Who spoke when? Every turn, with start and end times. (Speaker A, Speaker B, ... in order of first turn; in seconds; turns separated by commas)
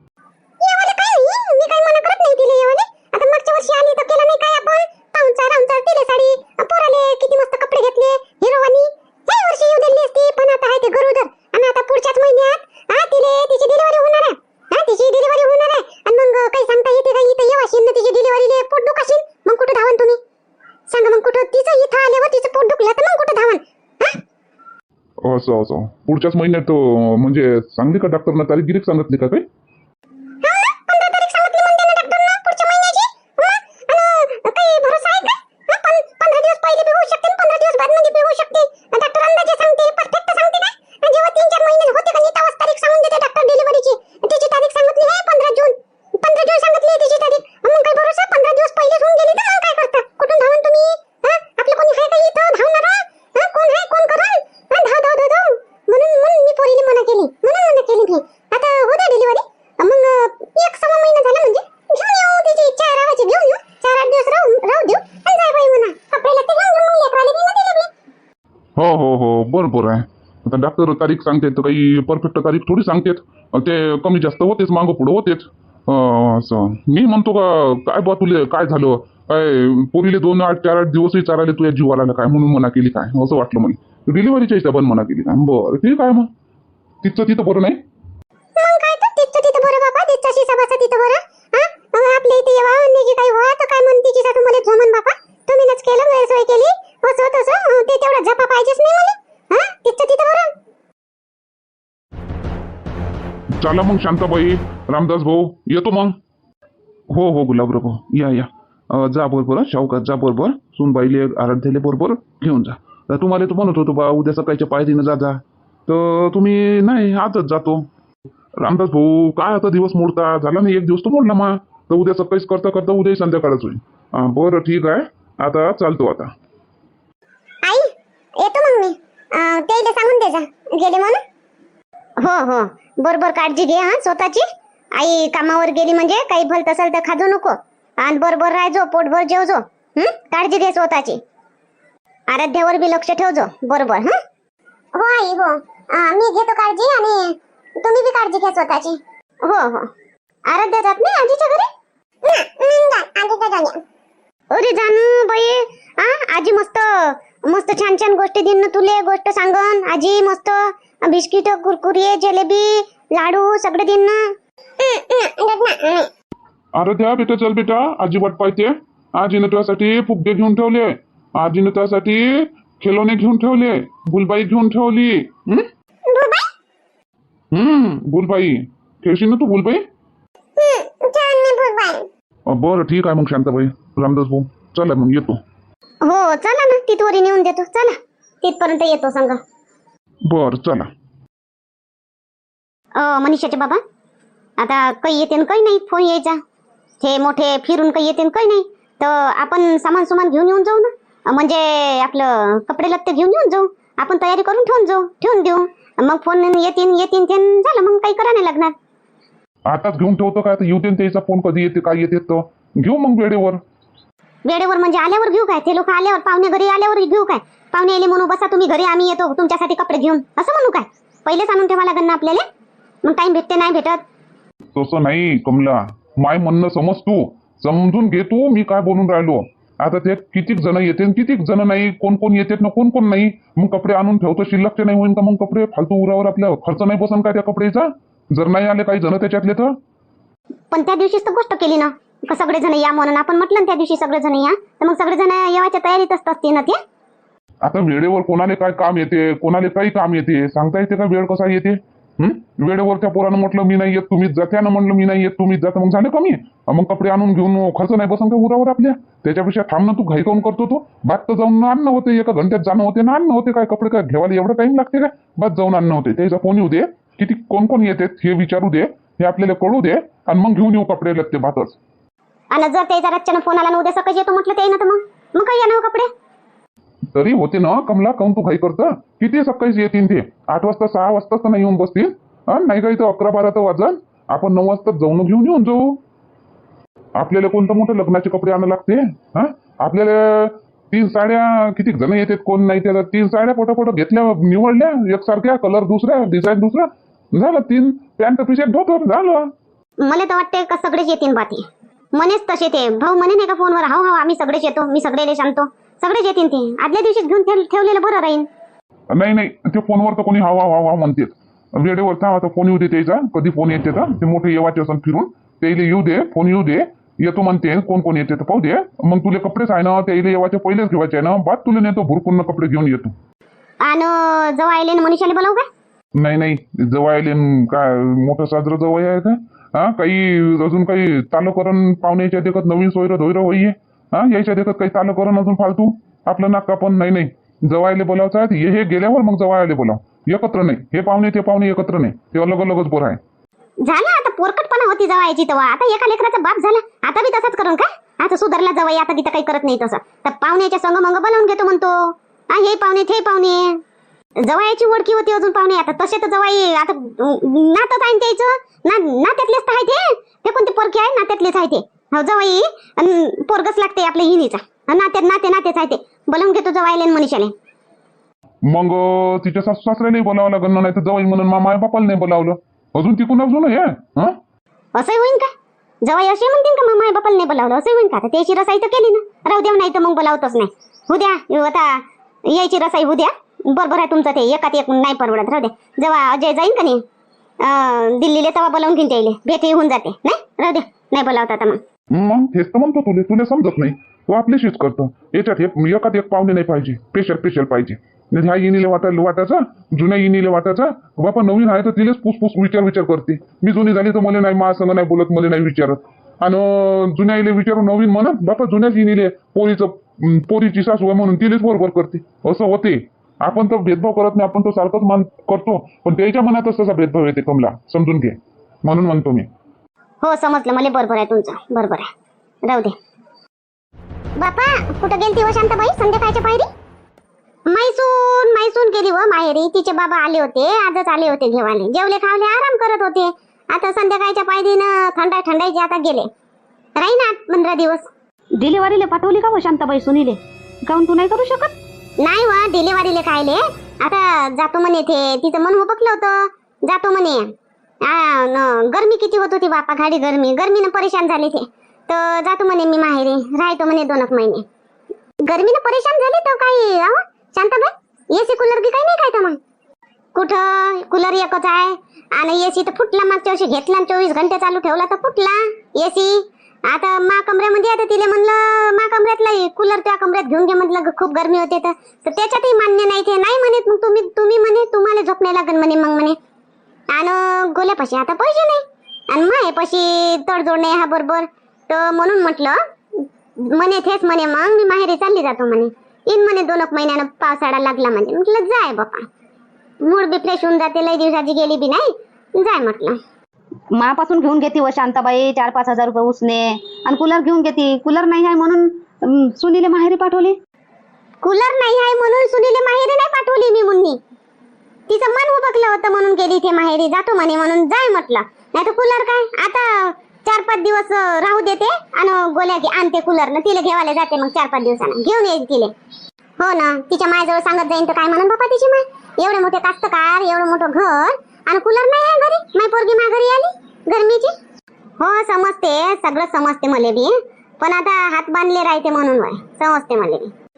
Speaker A: 0.6-20.2, Speaker A: 20.9-24.2, Speaker B: 25.2-29.4, Speaker A: 30.4-67.9, Speaker B: 68.8-86.3, Speaker B: 87.0-87.8, Speaker A: 88.5-100.5, Speaker B: 103.6-106.2, Speaker B: 107.1-117.9, Speaker B: 118.6-126.3, Speaker A: 127.6-131.2, Speaker A: 132.2-141.2, Speaker A: 142.3-144.2, Speaker A: 144.9-149.9, Speaker A: 150.5-151.7, Speaker A: 152.2-153.8, Speaker A: 154.5-166.1, Speaker B: 166.7-175.7, Speaker A: 176.1-176.5, Speaker B: 177.5-179.8, Speaker A: 180.6-182.1, Speaker B: 182.5-185.4, Speaker A: 186.0-189.4, Speaker B: 190.3-190.9, Speaker A: 192.9-193.8, Speaker A: 194.6-196.4, Speaker A: 197.0-208.7, Speaker B: 209.7-213.6, Speaker A: 214.4-222.4, Speaker A: 223.0-224.0, Speaker B: 224.7-239.8, Speaker A: 240.7-246.8, Speaker B: 247.6-271.8, Speaker A: 272.5-276.1, Speaker B: 277.1-286.0, Speaker B: 287.2-299.5, Speaker A: 300.0-308.5, Speaker B: 309.1-323.1, Speaker A: 323.8-325.6, Speaker B: 326.2-343.2, Speaker A: 343.8-353.8, Speaker A: 354.4-367.5, Speaker B: 368.6-374.4, Speaker A: 374.9-375.5, Speaker A: 376.0-387.0, Speaker A: 387.6-391.8, Speaker B: 392.1-419.5, Speaker A: 420.2-422.1, Speaker A: 422.6-422.9, Speaker A: 424.4-426.7, Speaker A: 427.7-436.3, Speaker A: 436.9-438.1, Speaker C: 438.6-441.7, Speaker A: 442.2-447.5, Speaker A: 448.0-454.6, Speaker A: 455.4-459.6, Speaker A: 460.3-476.4, Speaker A: 477.1-489.3, Speaker A: 490.0-493.2, Speaker C: 493.9-500.6, Speaker A: 501.4-504.2, Speaker A: 505.1-515.9, Speaker A: 516.6-524.5, Speaker A: 525.2-530.5